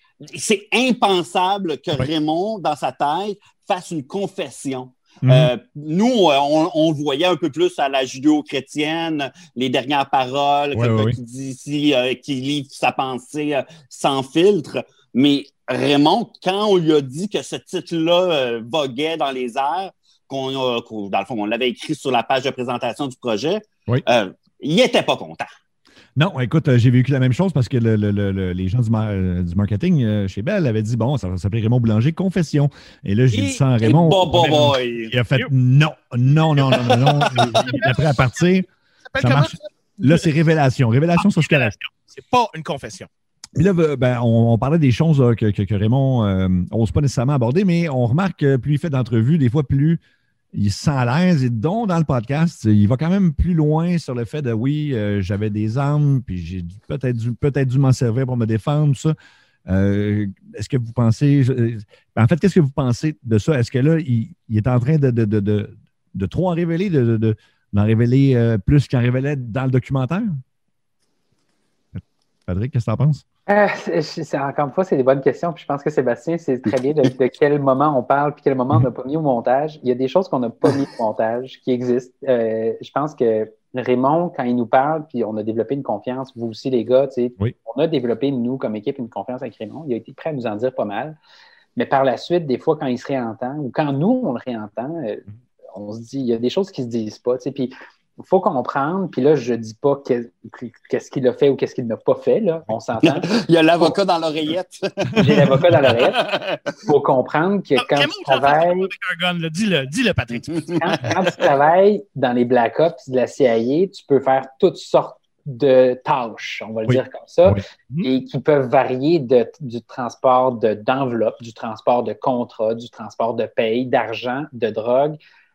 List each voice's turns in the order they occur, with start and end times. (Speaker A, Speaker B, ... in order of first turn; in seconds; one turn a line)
Speaker A: 0.2-25.5
Speaker B: 5.2-5.5
Speaker B: 10.7-11.2
Speaker B: 26.1-38.7
Speaker C: 33.3-33.6
Speaker A: 33.8-35.1
Speaker A: 36.7-37.6
Speaker C: 37.5-37.9
Speaker C: 39.1-40.1
Speaker B: 39.2-41.7
Speaker C: 41.2-43.1
Speaker B: 43.5-50.0
Speaker B: 50.5-59.1
Speaker B: 59.7-70.4
Speaker B: 71.9-73.2
Speaker D: 73.5-91.2
Speaker D: 91.8-103.3
Speaker A: 103.0-106.8
Speaker D: 105.2-106.2
Speaker D: 106.8-108.9
Speaker C: 107.8-111.2
Speaker D: 110.7-125.2
Speaker B: 116.9-117.6